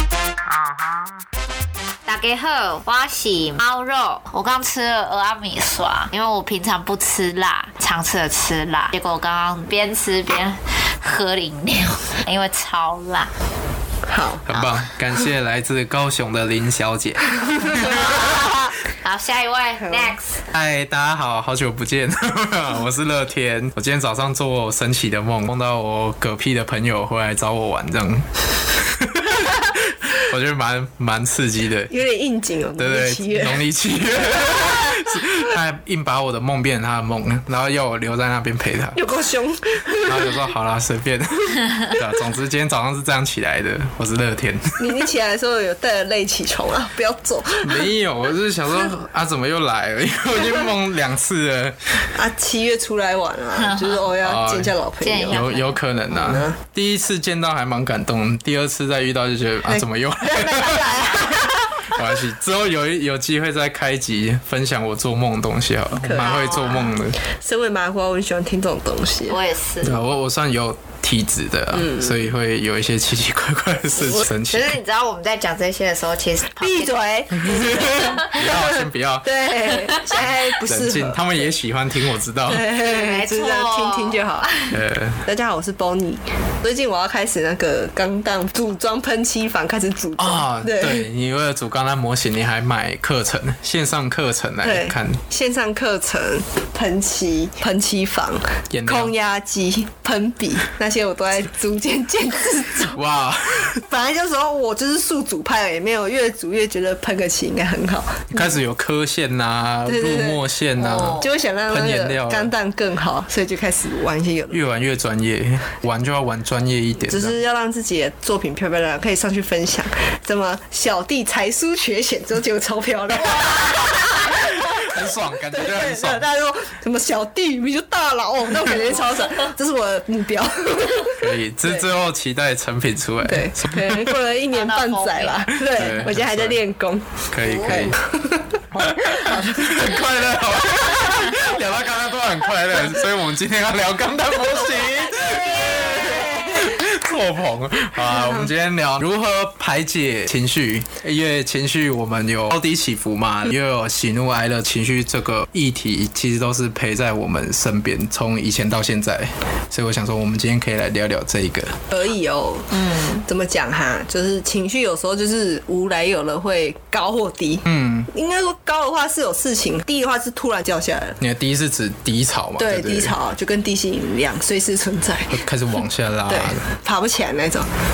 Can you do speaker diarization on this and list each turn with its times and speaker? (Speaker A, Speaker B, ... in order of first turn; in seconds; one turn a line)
Speaker A: 2.0-13.3
Speaker B: 14.1-14.5
Speaker C: 14.5-18.1
Speaker A: 17.8-20.4
Speaker B: 19.8-20.1
Speaker C: 20.5-31.9
Speaker B: 31.9-33.6
Speaker C: 32.8-39.0
Speaker B: 34.5-35.0
Speaker B: 39.0-40.4
Speaker C: 40.0-45.1
Speaker B: 44.8-47.9
Speaker C: 47.6-52.1
Speaker B: 52.1-55.5
Speaker A: 53.5-54.1
Speaker C: 54.2-54.7
Speaker A: 55.0-55.8
Speaker C: 55.3-67.2
Speaker B: 56.1-56.6
Speaker B: 59.7-62.0
Speaker B: 66.0-69.4
Speaker A: 66.2-66.9
Speaker A: 69.3-70.0
Speaker C: 69.8-74.8
Speaker B: 71.7-72.2
Speaker A: 74.5-78.3
Speaker B: 76.6-81.4
Speaker C: 77.5-79.4
Speaker C: 80.2-82.6
Speaker B: 82.5-91.0
Speaker A: 82.8-84.2
Speaker C: 84.7-85.2
Speaker C: 90.2-95.2
Speaker B: 94.6-103.0
Speaker C: 98.7-99.1
Speaker C: 102.9-103.8
Speaker B: 103.7-108.5
Speaker C: 108.3-112.5
Speaker B: 109.8-110.4
Speaker A: 110.8-111.3
Speaker B: 111.2-114.6
Speaker C: 114.5-117.4
Speaker B: 117.0-131.8
Speaker C: 123.1-126.2
Speaker C: 131.1-134.2
Speaker B: 133.2-139.7
Speaker A: 134.5-135.5
Speaker C: 135.6-136.6
Speaker C: 137.3-138.0
Speaker C: 138.7-161.8
Speaker A: 145.2-145.9
Speaker B: 161.9-171.2
Speaker A: 162.7-163.2
Speaker C: 167.7-168.1
Speaker C: 171.2-173.2
Speaker B: 172.6-175.4
Speaker C: 175.3-176.6
Speaker B: 176.3-177.7